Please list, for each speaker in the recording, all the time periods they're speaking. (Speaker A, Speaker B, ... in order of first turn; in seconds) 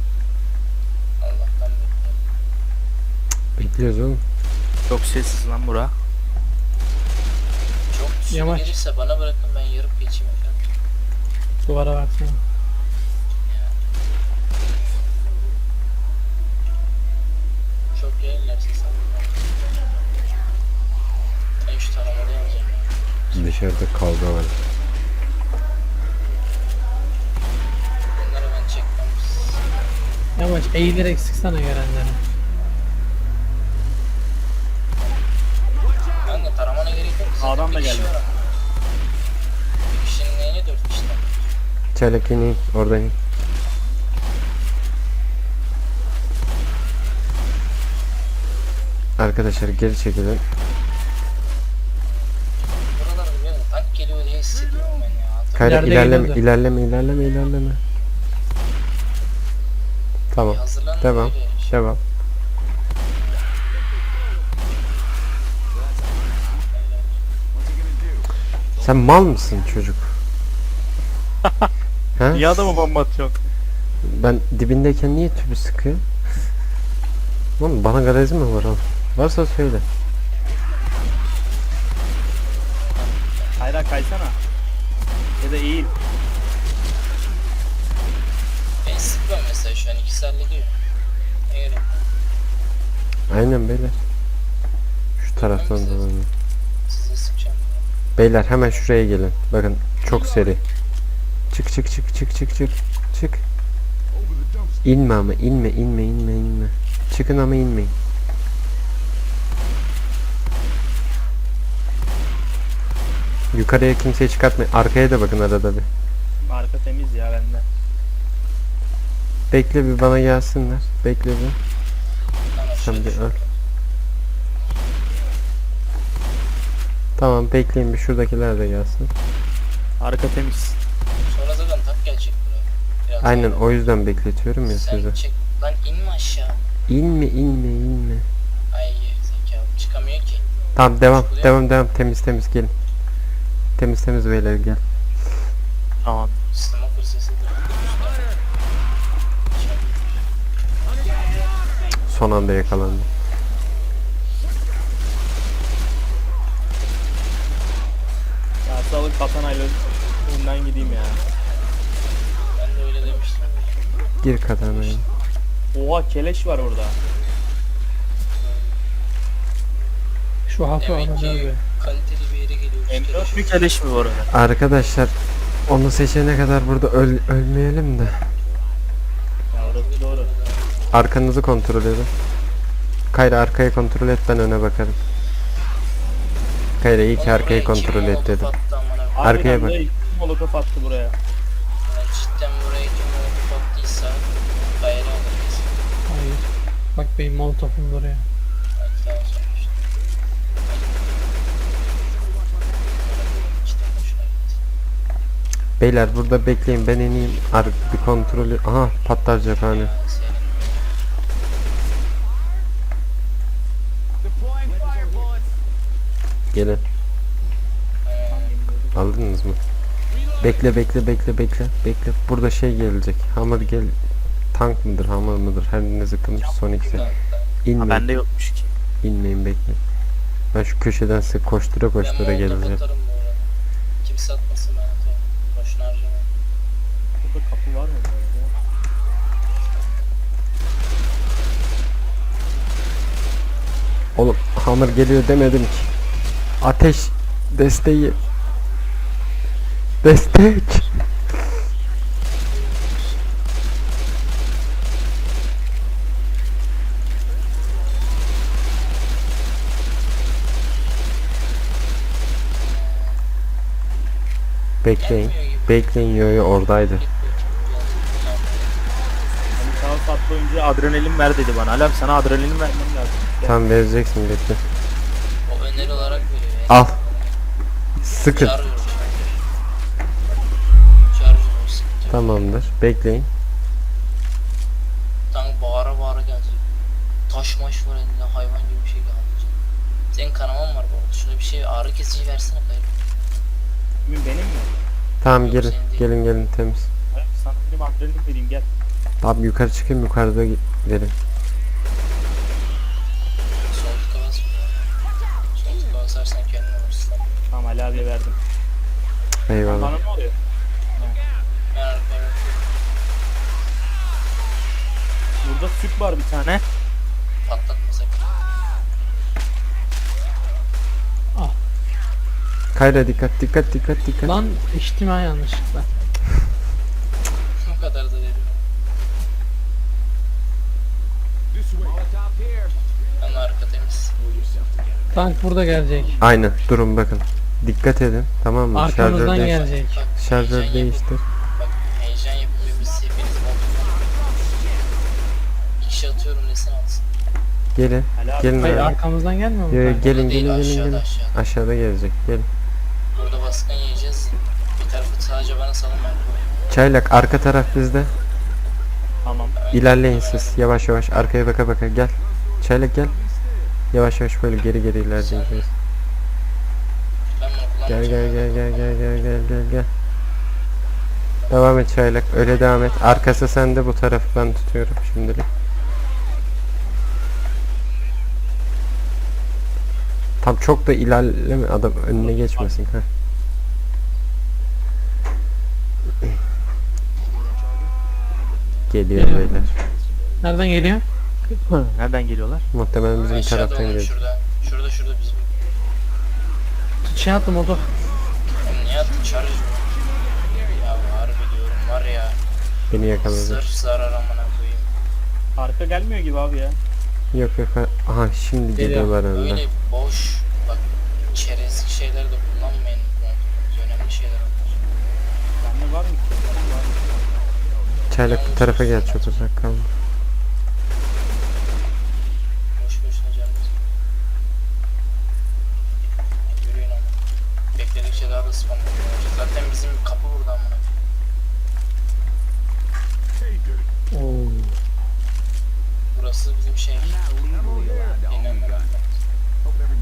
Speaker A: 1.2-2.2, 7.9-10.7, 13.4-13.8, 17.9-19.4, 21.6-23.8, 28.2-29.9, 36.2-38.4, 39.9-41.4, 52.7-55.9, 60.4-61.8, 66.7-67.2, 82.9-83.6, 88.8-90.8, 91.5-91.9, 95.4-96.1, 96.9-97.9, 98.4-98.9, 122.5-123.5, 131.2-133.7, 134.7-136.6, 138.7-140.4, 141.1-141.6, 146.5-148.4, 149.5-150.0, 162.5-163.8, 168.4-168.8, 170.8-173.6, 179.6-181.1, 187.2-189.5, 191.9-195.8, 198.8-199.8, 200.7-201.2, 202.9-204.6, 209.7-210.9, 218.1-218.6, 226.9-227.5, 232.0-233.5, 234.0-236.3, 252.3-253.2, 262.6-263.2, 265.0-268.8, 275.5-277.4, 278.2-279.4, 281.1-282.7, 285.3-286.6, 287.3-289.6, 290.1-292.9, 295.3-296.1, 303.7-304.9, 305.5-307.3, 311.7-312.5, 317.4-318.4, 327.6-328.7, 333.2-334.1, 339.2-344.1, 345.8-347.1, 350.0-351.4, 353.1-356.5, 359.6-360.8, 365.2-365.7, 367.4-369.0, 393.3-395.6, 398.6-399.9, 400.7-402.4, 403.2-404.9, 409.3-414.9, 418.2-419.5, 422.8-423.8, 426.5-427.2, 427.8-430.9, 436.1-437.2, 438.2-439.2
Speaker B: 3.6-4.2, 23.3-24.6, 42.0-43.1, 49.2-50.4, 55.6-57.8, 60.3-62.0, 68.8-70.1, 72.2-72.6, 74.0-76.0, 77.6-79.9, 93.3-94.0, 95.2-96.3, 98.2-100.6, 101.5-103.4, 104.8-107.9, 113.5-115.9, 119.5-121.6, 122.7-123.4, 127.2-129.1, 133.2-135.2, 136.9-138.3, 140.8-142.7, 143.8-144.8, 152.1-153.1, 164.2-165.0, 174.3-175.1, 175.7-178.3, 180.9-182.1, 183.1-185.0, 186.8-188.5, 189.2-189.8, 205.8-209.9, 216.5-216.8, 218.9-219.6, 220.4-224.0, 224.5-227.0, 227.7-228.1, 229.0-229.8, 230.5-232.8, 244.2-245.9, 246.6-248.2, 250.0-251.0, 264.8-267.0, 273.4-274.6, 276.7-276.9, 278.0-278.6, 282.1-283.3, 295.2-296.9, 299.2-301.1, 309.5-309.9, 322.7-324.4, 336.2-339.6, 340.2-341.2, 347.8-349.0, 349.7-352.5, 356.7-358.2, 359.7-363.1, 363.9-365.6, 367.9-369.9, 371.5-375.5, 380.4-383.1, 388.9-389.7, 392.7-394.1, 402.9-403.6, 407.3-409.6, 418.1-419.9
Speaker C: 4.9-5.9, 37.4-38.1, 72.3-73.3, 83.6-84.4, 85.4-85.9, 116.4-117.6, 130.0-130.8, 146.0-146.3, 158.7-161.2, 165.7-167.0, 172.9-174.3, 179.5-180.3, 189.2-191.2, 215.0-215.2, 218.3-219.1, 227.8-228.7, 237.2-238.5, 269.5-273.6, 294.1-294.8, 297.1-298.7, 307.5-308.4, 309.6-310.4, 315.4-316.6, 348.2-348.9, 359.2-359.6, 382.2-382.7, 391.5-392.7, 405.6-406.8, 415.6-417.4
Speaker D: 8.3-8.7, 11.7-12.4, 30.4-32.2, 55.6-56.4, 170.5-171.6, 196.1-198.2, 324.2-325.9, 335.1-336.2, 338.7-340.0, 348.6-350.0, 389.2-389.5, 390.4-391.1, 397.0-397.9, 408.8-409.1, 434.1-434.8